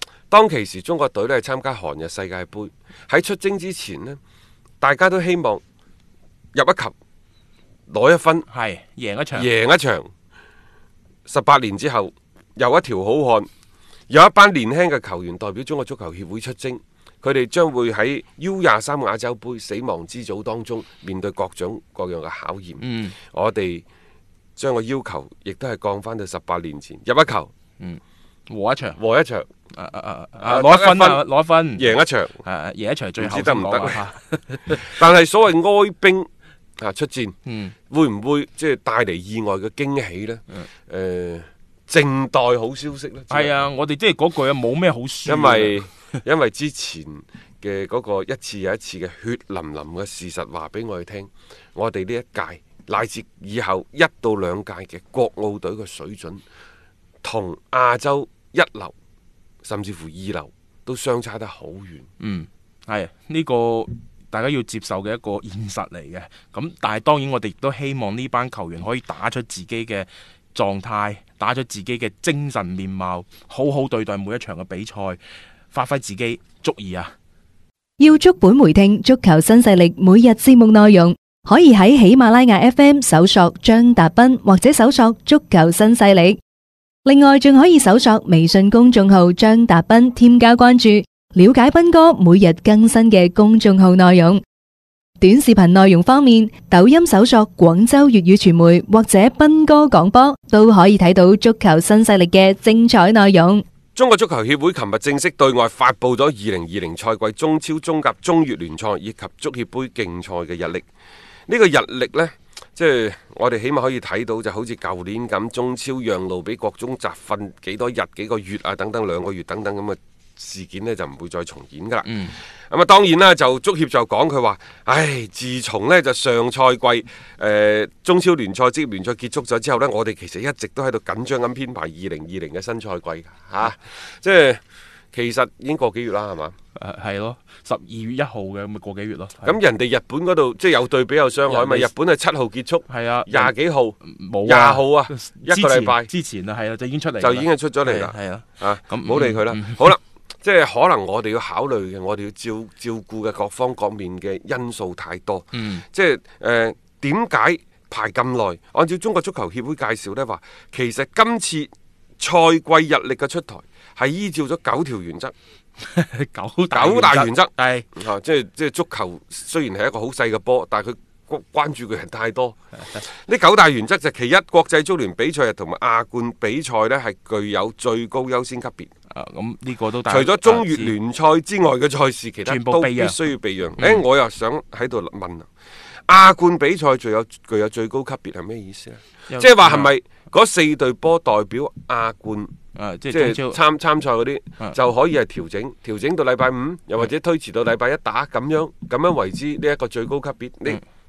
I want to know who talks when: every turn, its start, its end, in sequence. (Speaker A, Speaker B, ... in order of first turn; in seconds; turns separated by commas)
Speaker A: 0.3-4.2, Speaker A: 4.8-5.6, Speaker A: 6.5-6.9, Speaker A: 7.9-8.5, Speaker B: 8.5-9.5, Speaker A: 9.3-10.1, Speaker A: 11.2-13.5, Speaker A: 14.1-23.9, Speaker B: 22.8-23.1, Speaker A: 24.6-27.5, Speaker B: 27.8-29.0, Speaker A: 28.9-29.5, Speaker B: 29.7-34.9, Speaker A: 30.4-32.4, Speaker A: 33.2-34.0, Speaker A: 34.7-37.3, Speaker B: 37.5-37.8, Speaker A: 37.9-43.6, Speaker B: 43.3-45.8, Speaker A: 45.2-56.4, Speaker A: 57.2-58.9, Speaker A: 59.6-62.1, Speaker B: 62.2-75.2, Speaker B: 75.7-77.1, Speaker C: 78.0-86.4, Speaker C: 87.1-94.4, Speaker C: 95.2-103.6, Speaker A: 104.0-110.8, Speaker A: 111.5-134.6, Speaker B: 122.0-122.4, Speaker A: 135.1-136.6, Speaker B: 136.8-139.6, Speaker A: 139.4-146.1, Speaker B: 141.5-141.9, Speaker B: 142.9-149.8, Speaker A: 147.2-165.3, Speaker B: 155.5-155.8, Speaker B: 165.8-167.9, Speaker A: 166.7-178.9, Speaker B: 179.1-180.9, Speaker A: 180.1-185.5, Speaker B: 182.4-183.2, Speaker B: 183.8-184.0, Speaker A: 186.1-192.5, Speaker B: 189.3-189.9, Speaker B: 192.8-193.6, Speaker A: 193.1-200.8